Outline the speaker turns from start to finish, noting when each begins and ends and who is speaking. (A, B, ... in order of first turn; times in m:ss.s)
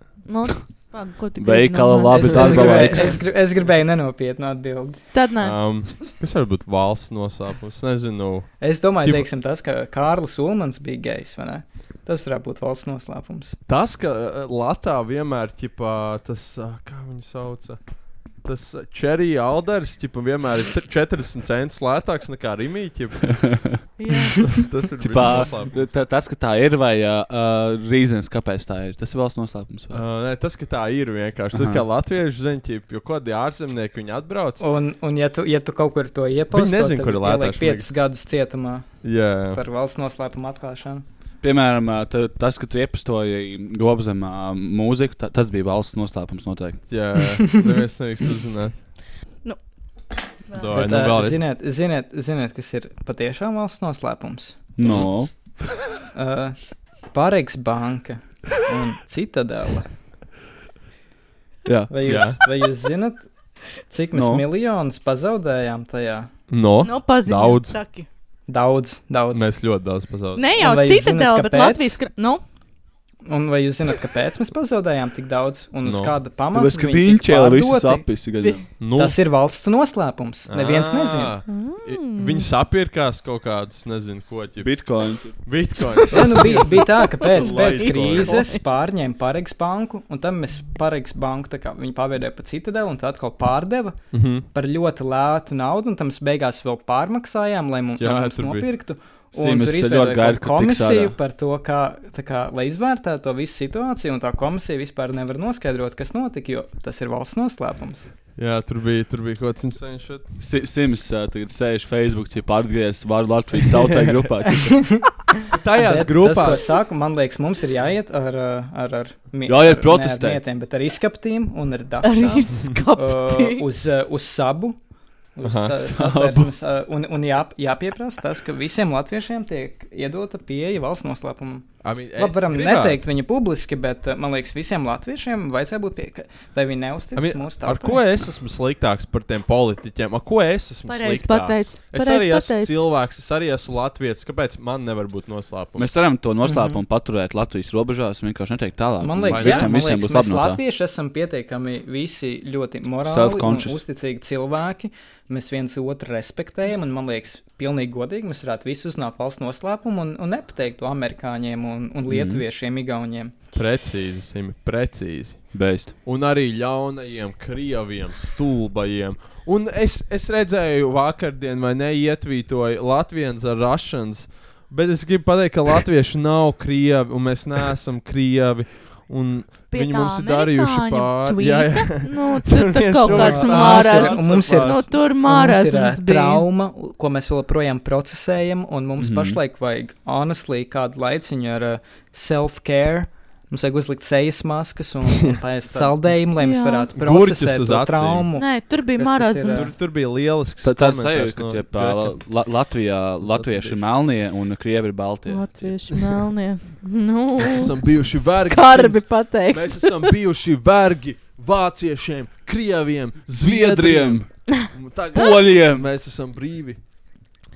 0:00.3-0:03.1 A
0:01.4-0:03.2 B
0:02.1-0:05.1 C
0:05.1-0:05.6 A
0:05.4-0:09.3 D
0:08.6-0:13.6 C
0:13.7-0:23.8 D
0:24.0-0:24.5 A
0:24.4-0:25.8 D
0:25.0-0:30.0 B
0:29.9-0:34.6 D
0:31.5-0:31.8 B
0:34.6-0:41.0 C
0:36.5-0:37.9 D
0:39.0-0:39.6 D
0:41.4-0:46.8 B
0:46.9-0:48.9 D
0:50.5-0:51.4 D
0:50.7-0:54.6 C
0:54.8-0:55.7 B
0:56.1-0:59.9 C
1:01.6-1:01.9 B
1:01.9-1:06.3 C
1:02.0-1:02.4 D
1:04.1-1:04.4 B
1:06.5-1:07.8 D
1:06.8-1:08.1 A
1:08.5-1:09.5 C
1:09.3-1:10.4 D
1:10.4-1:12.4 A
1:10.6-1:12.0 C
1:13.2-1:18.1 C
1:15.8-1:16.2 D
1:16.5-1:18.7 B
1:18.8-1:19.2 D
1:19.0-1:21.4 C
1:20.5-1:28.5 D
1:21.5-1:22.5 A
1:24.6-1:25.4 B
1:26.1-1:34.0 C
1:27.2-1:28.6 A
1:34.1-1:34.5 D
1:34.5-1:48.1 C
1:38.0-1:38.7 D
1:39.3-1:41.2 B
1:48.4-1:50.3 D
1:50.4-1:55.1 B
1:53.9-1:54.3 D
1:55.5-1:56.7 D
1:55.8-2:04.8 C
1:59.5-2:00.4 B
2:02.0-2:03.7 A
2:05.4-2:18.0 C
2:05.4-2:05.8 D
2:05.8-2:06.5 B
2:11.8-2:13.0 D
2:17.2-2:25.9 D
2:20.9-2:22.8 A
2:25.8-2:30.6 B
2:26.5-2:26.7 C
2:29.0-2:43.4 C
2:29.3-2:29.7 D
2:33.0-2:33.8 B
2:42.1-2:42.4 B
2:43.5-3:04.8 D
2:45.5-2:45.9 B
2:59.7-3:06.5 A
3:03.0-3:19.8 C
3:09.0-3:09.4 B
3:15.2-3:15.8 D
3:16.4-3:16.9 A
3:17.0-3:18.3 D
3:18.4-3:19.7 A
3:19.5-3:22.2 D
3:20.6-3:25.9 B
3:23.2-3:23.8 D
3:25.3-3:30.1 A
3:27.4-3:36.9 D
3:33.3-3:35.9 B